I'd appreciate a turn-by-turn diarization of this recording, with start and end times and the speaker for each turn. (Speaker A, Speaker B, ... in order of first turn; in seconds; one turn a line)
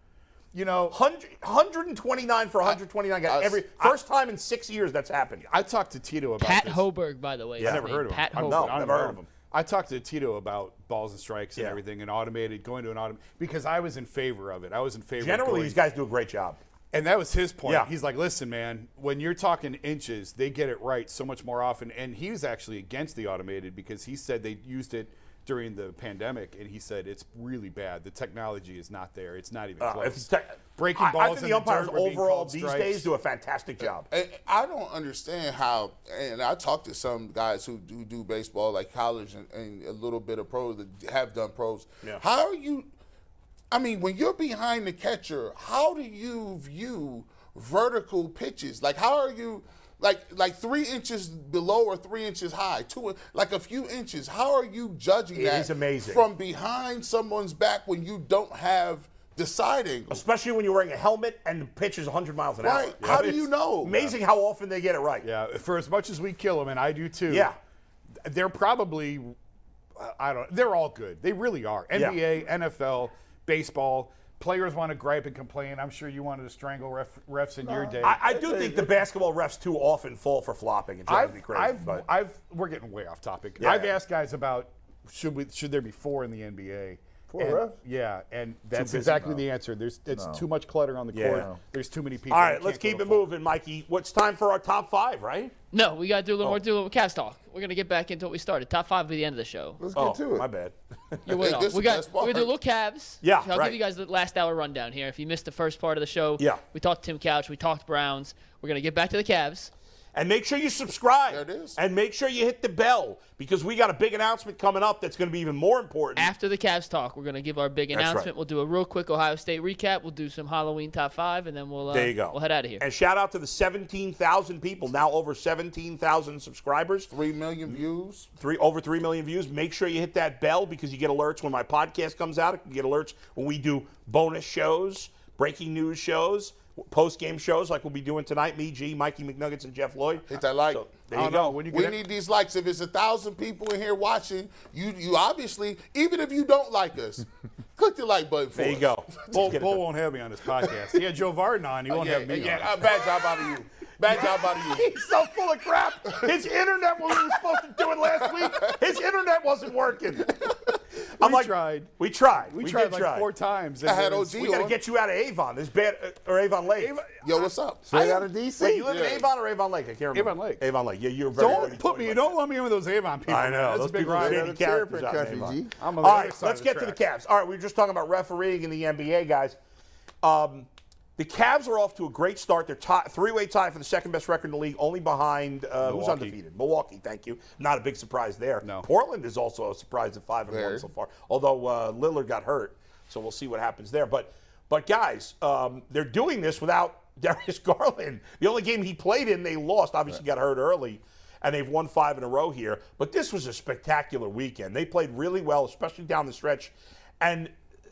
Speaker A: 0.5-1.0
Speaker B: 0.9-5.5
Speaker C: 3.3-3.8
Speaker A: 5.5-6.8
Speaker D: 6.4-8.8
Speaker A: 7.6-15.8
Speaker B: 7.6-9.3
Speaker B: 15.2-16.6
Speaker A: 16.9-33.1
Speaker B: 29.8-34.1
Speaker C: 34.1-42.9
Speaker C: 43.7-60.2
Speaker B: 55.3-56.2
Speaker B: 60.1-65.2
Speaker C: 62.6-64.1
Speaker A: 65.2-67.5
Speaker B: 67.3-67.6
Speaker A: 68.2-69.3
Speaker A: 70.0-78.2
Speaker B: 71.9-72.2
Speaker E: 77.6-79.0
Speaker B: 78.0-82.0
Speaker A: 81.1-93.3
Speaker B: 83.6-83.9
Speaker E: 87.3-87.8
Speaker B: 88.8-89.2
Speaker E: 89.0-89.4
Speaker E: 90.1-90.4
Speaker B: 91.1-91.5
Speaker E: 91.3-91.6
Speaker B: 92.3-95.5
Speaker D: 95.7-99.8
Speaker E: 99.8-100.5
Speaker B: 99.9-101.6
Speaker D: 101.2-109.7
Speaker C: 101.3-102.5
Speaker B: 103.2-103.8
Speaker B: 110.1-116.3
Speaker C: 111.3-111.8
Speaker D: 116.2-122.8
Speaker B: 117.9-118.3
Speaker B: 121.9-127.1
Speaker C: 127.1-128.3
Speaker B: 128.4-141.6
Speaker C: 140.3-149.5
Speaker A: 141.1-142.0
Speaker B: 148.5-149.8
Speaker A: 149.3-152.8
Speaker C: 151.9-155.0
Speaker B: 154.1-160.5
Speaker C: 156.1-156.3
Speaker C: 157.1-158.8
Speaker A: 158.1-158.6
Speaker A: 161.2-161.9
Speaker B: 161.2-163.3
Speaker A: 162.5-164.4
Speaker C: 163.8-164.8
Speaker B: 164.3-167.0
Speaker A: 166.8-168.2
Speaker C: 167.2-167.9
Speaker E: 167.9-169.0
Speaker B: 168.6-172.3
Speaker C: 168.8-169.3
Speaker A: 170.1-170.6
Speaker A: 171.3-174.5
Speaker B: 173.3-179.6
Speaker E: 174.1-175.7
Speaker A: 175.8-177.0
Speaker B: 180.2-207.5
Speaker A: 185.8-186.3
Speaker C: 190.5-190.8